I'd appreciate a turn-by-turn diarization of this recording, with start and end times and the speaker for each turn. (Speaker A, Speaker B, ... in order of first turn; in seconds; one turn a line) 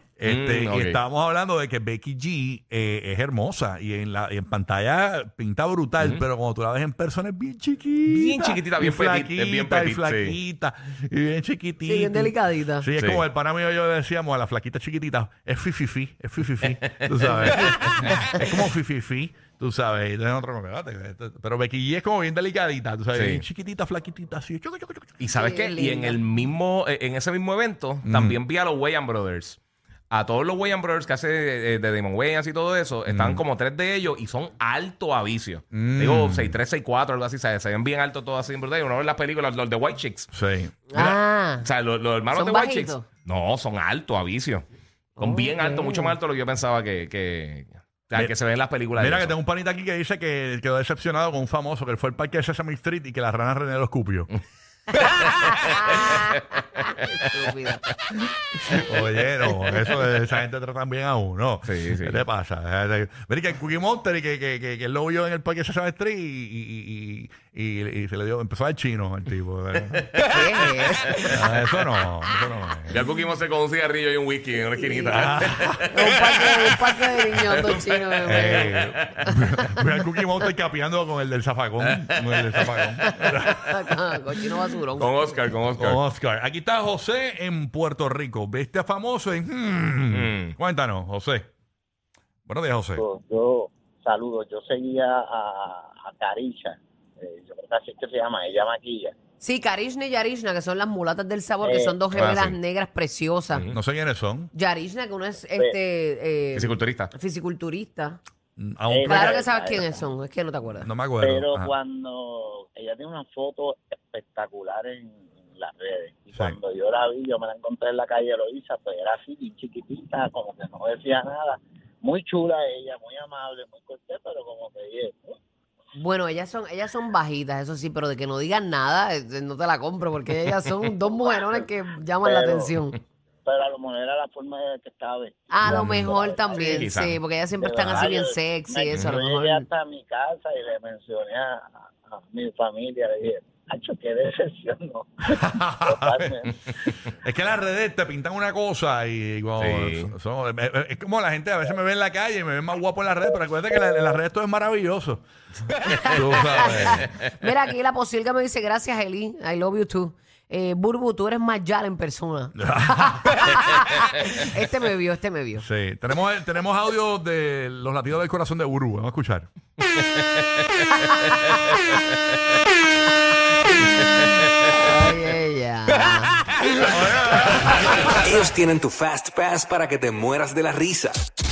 Speaker A: 0.2-25.2
Speaker B: 0.2-1.0
Speaker B: 6.0-6.2
Speaker B: 8.1-10.4
Speaker C: 11.8-12.9
Speaker B: 13.0-13.2
Speaker C: 17.4-18.5
Speaker B: 17.5-18.0
Speaker B: 23.1-23.4
Speaker B: 25.2-29.6
Speaker C: 25.3-26.2
Speaker A: 28.0-28.4
Speaker B: 30.1-40.3
Speaker A: 33.1-33.4
Speaker A: 35.7-36.6
Speaker A: 40.3-41.2
Speaker C: 40.9-41.6
Speaker B: 41.6-44.6
Speaker C: 42.3-43.0
Speaker B: 45.2-49.3
Speaker C: 45.2-46.1
Speaker A: 48.9-54.3
Speaker B: 55.0-56.4
Speaker C: 55.3-57.8
Speaker A: 58.7-70.2
Speaker B: 61.6-62.2
Speaker B: 70.2-71.3
Speaker C: 70.2-71.7
Speaker A: 71.2-73.0
Speaker B: 72.9-76.5
Speaker C: 74.8-75.2
Speaker A: 75.1-76.2
Speaker C: 75.9-79.8
Speaker B: 77.5-79.0
Speaker A: 78.2-84.2
Speaker B: 81.8-82.8
Speaker C: 83.0-85.4
Speaker B: 85.0-86.0
Speaker A: 85.8-91.5
Speaker B: 90.1-90.5
Speaker A: 92.5-93.0
Speaker D: 93.0-99.1
Speaker C: 99.4-103.7
Speaker D: 101.6-102.0
Speaker B: 102.1-102.6
Speaker B: 103.5-103.8
Speaker A: 103.7-104.5
Speaker C: 104.5-108.2
Speaker B: 106.5-107.1
Speaker A: 108.6-109.4
Speaker D: 108.9-110.0
Speaker C: 109.0-110.9
Speaker A: 110.8-111.7
Speaker D: 111.2-125.3
Speaker C: 125.9-133.0
Speaker D: 131.1-131.7
Speaker D: 132.2-132.7
Speaker D: 133.4-136.9
Speaker C: 135.5-139.7
Speaker B: 136.6-137.2
Speaker D: 137.6-146.6
Speaker A: 145.5-146.3
Speaker A: 147.1-155.2
Speaker B: 149.6-150.1
Speaker B: 155.8-156.2
Speaker A: 155.9-157.1
Speaker C: 156.0-165.7
Speaker A: 162.6-163.6
Speaker A: 165.6-169.5
Speaker B: 169.9-172.1
Speaker C: 170.9-171.8
Speaker C: 173.7-174.1
Speaker B: 173.9-174.6
Speaker C: 174.7-176.3
Speaker A: 176.7-178.3
Speaker E: 177.7-181.2